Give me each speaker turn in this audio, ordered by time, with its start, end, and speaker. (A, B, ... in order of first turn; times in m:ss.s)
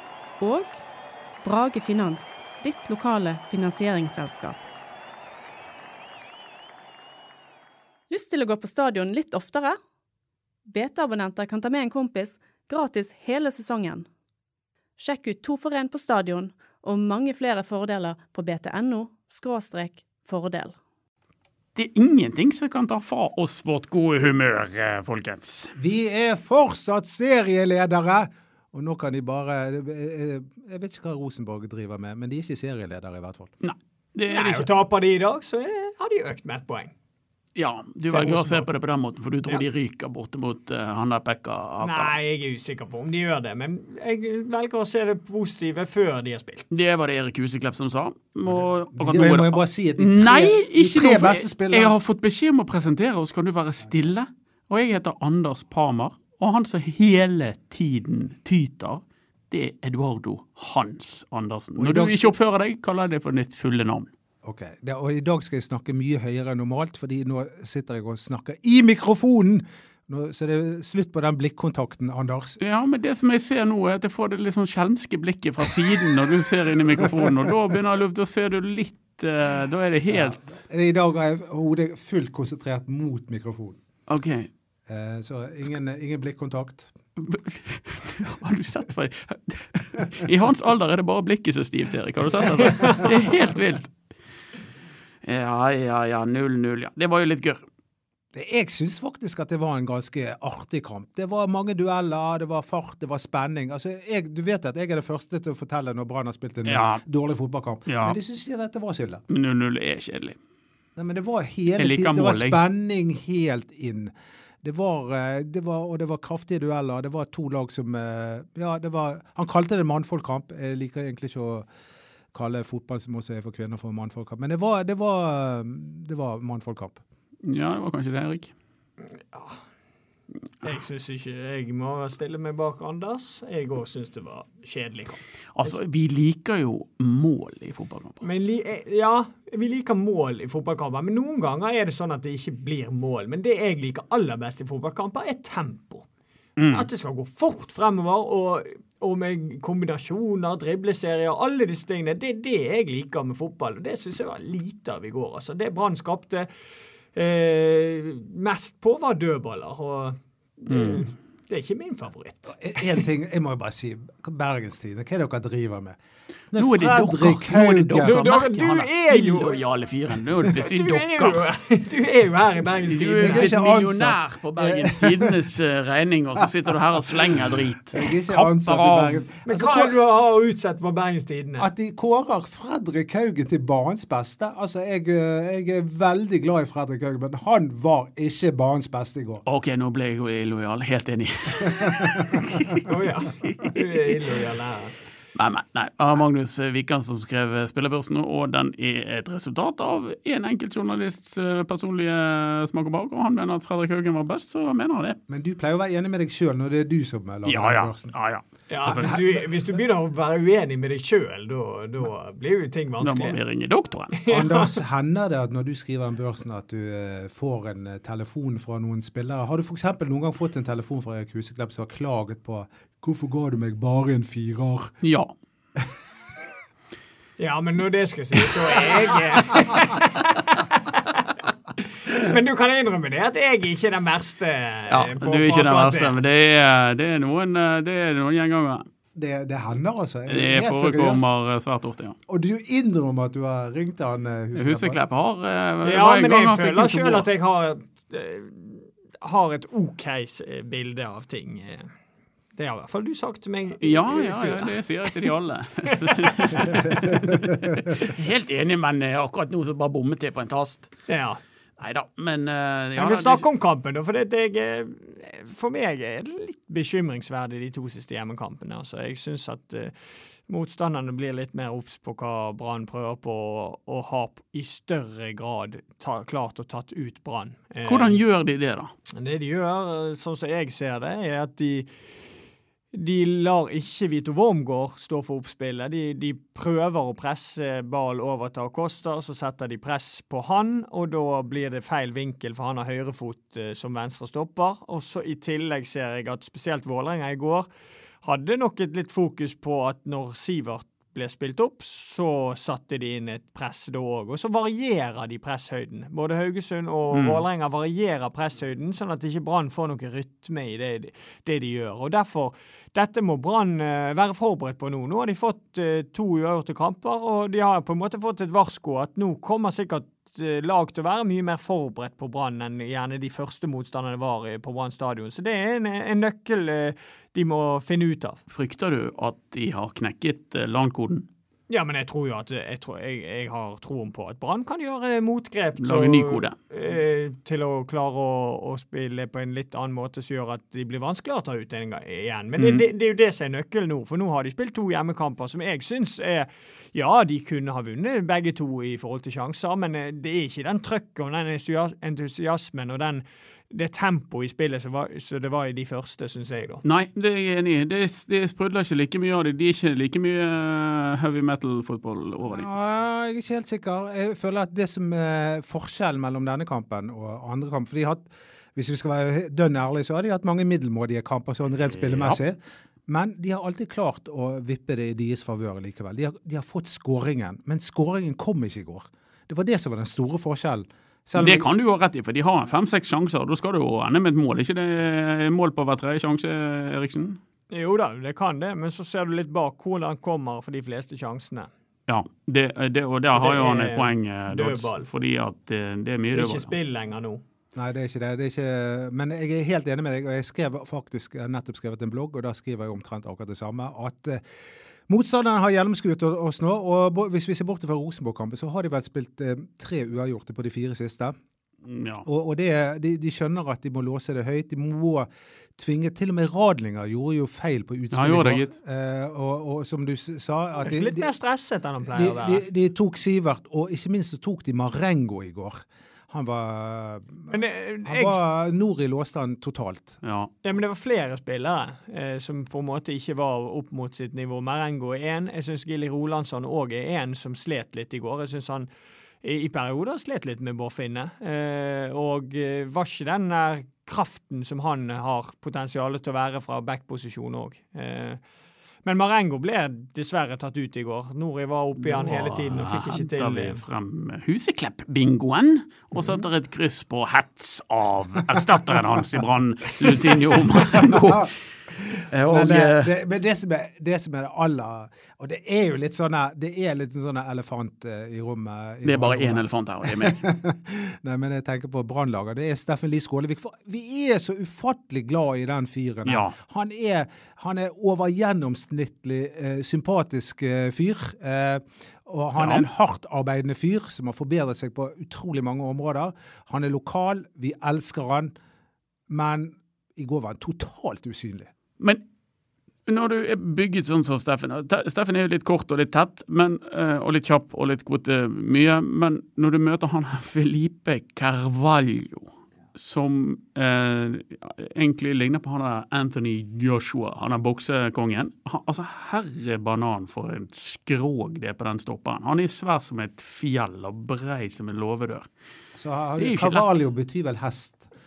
0:00.4-0:00.8 A
0:01.4-0:04.6 A
0:08.1-0:09.8 A
0:10.6-0:14.0 A
0:15.0-0:20.8 A
0:21.7-0:25.7 B
0:25.8-0:33.5 C
0:33.6-0:34.7 B
0:34.3-0:36.9 D
0:37.6-0:42.2 B
0:38.1-0:38.7 D
0:41.8-0:46.7 D
0:46.7-1:04.1 B
0:49.0-0:52.0 C
1:01.8-1:02.3 C
1:04.4-1:12.6 C
1:12.6-1:20.6 B
1:17.0-1:17.5 C
1:20.1-1:23.8 C
1:24.1-1:24.5 B
1:24.9-1:26.9 C
1:27.2-1:33.9 B
1:32.3-1:33.5 D
1:35.2-1:37.6 B
1:38.3-1:49.2 C
1:46.6-1:47.0 B
1:47.8-1:48.2 B
1:49.3-1:50.4 B
1:51.0-1:54.1 C
1:51.8-1:52.6 B
1:54.6-2:01.6 C
2:02.3-2:07.0 C
2:07.4-2:08.5 B
2:09.3-2:09.6 D
2:10.6-2:15.8 D
2:15.5-2:18.2 B
2:18.2-2:26.0 D
2:26.6-2:26.9 B
2:26.6-2:36.5 D
2:37.1-2:43.0 D
2:40.7-2:41.1 B
2:42.5-2:46.0 C
2:46.5-2:48.2 C
2:46.5-2:51.4 B
2:48.0-2:49.6 D
2:50.4-2:53.5 D
2:52.8-2:59.2 B
2:53.2-2:55.4 C
2:56.4-2:59.9 C
2:59.4-3:01.7 D
3:01.6-3:09.4 C
3:09.4-3:12.8 B
3:11.6-3:12.7 C
3:12.8-3:14.9 D
3:13.4-3:14.2 B
3:15.3-3:25.2 B
3:25.3-3:28.1 C
3:27.4-3:29.2 B
3:28.7-3:33.4 D
3:28.8-3:29.4 C
3:33.0-3:34.2 B
3:34.1-3:34.8 D
3:34.3-3:44.9 C
3:45.0-3:45.3 B
3:47.4-3:56.2 D
3:54.9-3:58.8 B
3:59.1-4:01.3 C
4:00.3-4:02.2 B
4:02.3-4:05.0 C
4:04.5-4:07.3 B
4:05.8-4:11.9 D
4:12.6-4:15.2 D
4:13.8-4:20.9 B
4:15.9-4:17.1 D
4:21.1-4:21.4 D
4:21.8-4:23.4 B
4:23.0-4:38.2 D
4:37.8-4:38.9 B
4:39.1-4:41.9 D
4:42.9-4:57.7 D
4:58.2-5:28.4 D
5:07.1-5:07.4 B
5:28.5-5:31.2 B
5:31.7-5:56.8 D
5:35.8-5:36.5 B
5:42.6-5:42.8 B
5:56.8-6:02.7 B
6:02.4-6:21.7 C
6:12.0-6:12.4 B
6:21.4-6:27.4 B
6:27.7-6:31.7 D
6:32.1-6:36.7 B
6:33.3-6:35.1 D
6:36.3-6:37.4 D
6:37.7-6:44.4 C
6:45.1-6:51.3 C
6:51.8-6:52.2 B
6:52.2-7:01.3 C
6:58.1-6:58.7 B
7:00.8-7:02.6 D
7:02.0-7:10.2 C
7:07.5-7:08.4 D
7:10.2-7:10.5 B
7:10.6-7:18.9 D
7:19.4-7:28.4 D
7:29.0-7:33.8 D
7:32.0-7:41.5 B
7:40.0-8:08.5 C
7:42.3-7:43.1 B
7:49.0-7:50.4 B
7:56.2-7:56.5 B
8:02.6-8:02.8 B
8:09.3-8:11.7 C
8:13.1-8:35.5 B
8:35.9-8:38.1 C
8:36.4-8:36.9 B